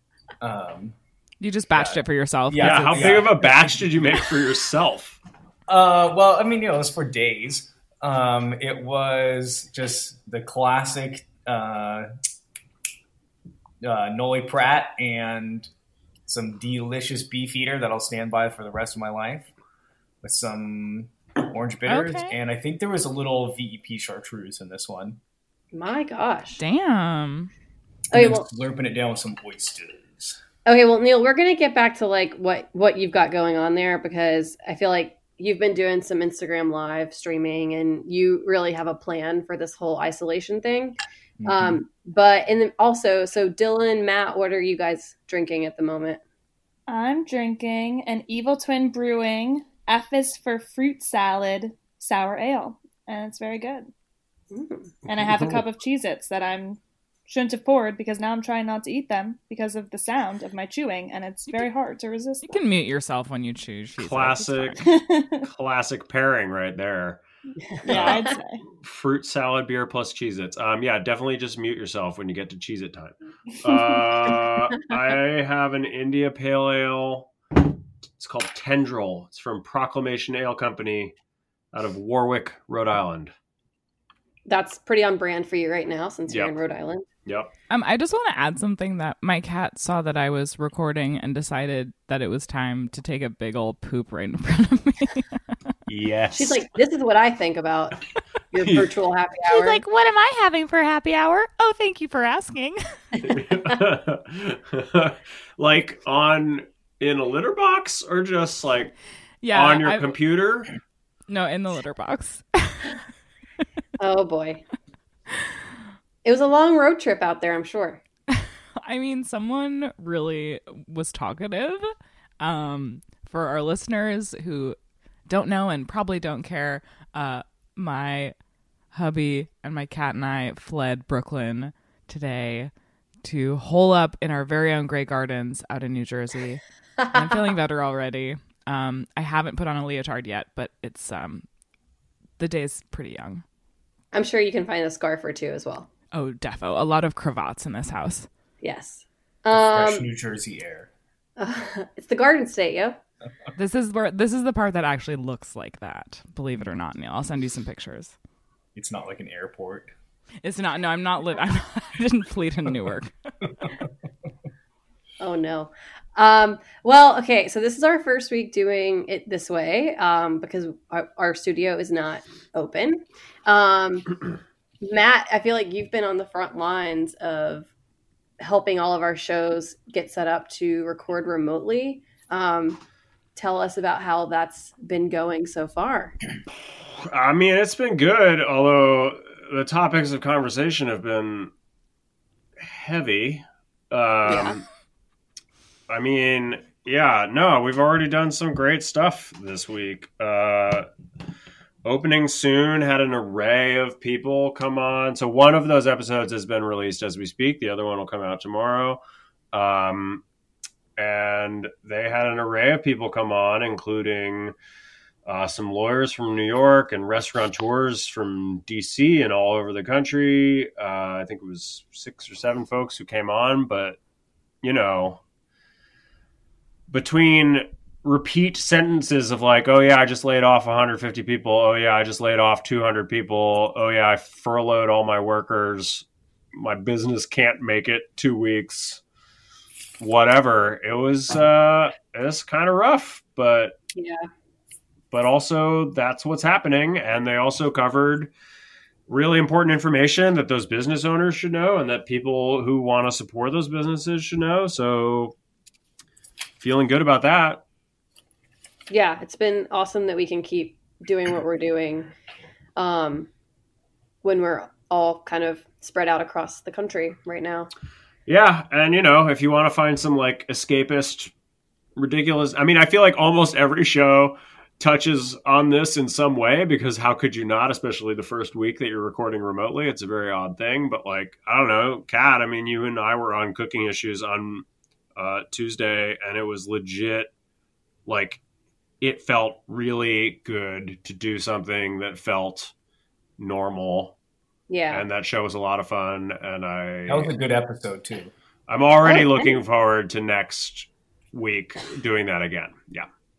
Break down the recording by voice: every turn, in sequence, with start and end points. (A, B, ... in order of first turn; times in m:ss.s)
0:00.4-0:01.0 A
0:01.4-0:03.4 B
0:01.7-0:03.8 A
0:02.6-0:05.2 C
0:05.7-0:12.1 A
0:13.8-0:15.7 A
0:16.3-0:19.5 A
0:20.2-0:25.2 A
0:21.9-0:22.4 B
0:25.7-0:26.6 D
0:26.6-0:27.5 B
0:28.1-0:28.4 D
0:28.1-0:30.4 A
0:30.6-0:46.2 D
0:41.4-0:41.8 A
0:46.9-0:53.9 E
0:54.5-0:55.0 D
0:55.1-1:02.6 E
0:55.3-0:55.6 C
1:02.4-1:04.9 B
1:04.0-1:07.2 C
1:04.8-1:05.5 E
1:07.8-1:08.3 D
1:07.8-1:08.3 C
1:07.9-1:08.6 E
1:08.8-1:17.3 C
1:18.2-1:21.1 C
1:21.7-1:23.3 C
1:24.4-1:27.0 D
1:26.3-1:26.5 C
1:27.2-1:27.5 C
1:27.7-1:35.3 B
1:35.9-1:36.6 C
1:36.3-1:38.0 D
1:38.5-1:39.8 D
1:38.6-1:38.9 C
1:39.4-1:42.8 B
1:43.2-1:48.9 C
1:49.4-1:50.2 B
1:49.5-1:50.7 C
1:51.3-1:52.9 B
1:54.0-1:54.6 D
1:56.2-1:58.0 D
1:58.8-2:01.9 B
2:02.4-2:04.8 B
2:05.3-2:08.3 B
2:08.9-2:12.7 B
2:13.2-2:21.4 B
2:17.0-2:17.3 D
2:22.4-2:23.4 B
2:24.1-2:25.9 D
2:26.1-2:28.3 B
2:28.6-2:30.1 D
2:29.5-2:30.9 A
2:31.4-2:33.0 D
2:33.6-2:38.1 B
2:38.7-2:39.9 A
2:40.4-2:43.1 B
2:45.2-2:54.2 D
2:54.8-2:57.7 D
2:58.4-3:02.8 D
3:03.4-3:06.1 D
3:07.0-3:11.5 C
3:12.6-3:14.6 C
3:14.2-3:14.6 D
3:15.9-3:20.9 C
3:21.8-3:29.0 C
3:29.5-3:30.2 C
3:31.0-3:34.5 C
3:35.2-3:44.0 C
3:44.6-3:45.2 C
3:46.9-3:59.0 C
4:00.0-4:03.7 C
4:03.9-4:04.2 D
4:05.1-4:08.3 C
4:09.1-4:15.3 C
4:16.6-4:17.6 C
4:18.9-4:22.1 D
4:22.8-4:23.3 D
4:24.2-4:27.7 D
4:28.2-4:31.3 C
4:32.0-4:44.6 C
4:45.2-4:47.3 C
4:48.0-4:48.4 C
4:49.0-4:52.7 C
4:53.4-4:54.1 C
4:54.7-4:55.0 D
4:54.9-4:57.3 C
4:57.1-4:58.3 A
4:58.7-5:03.1 C
4:59.0-4:59.6 D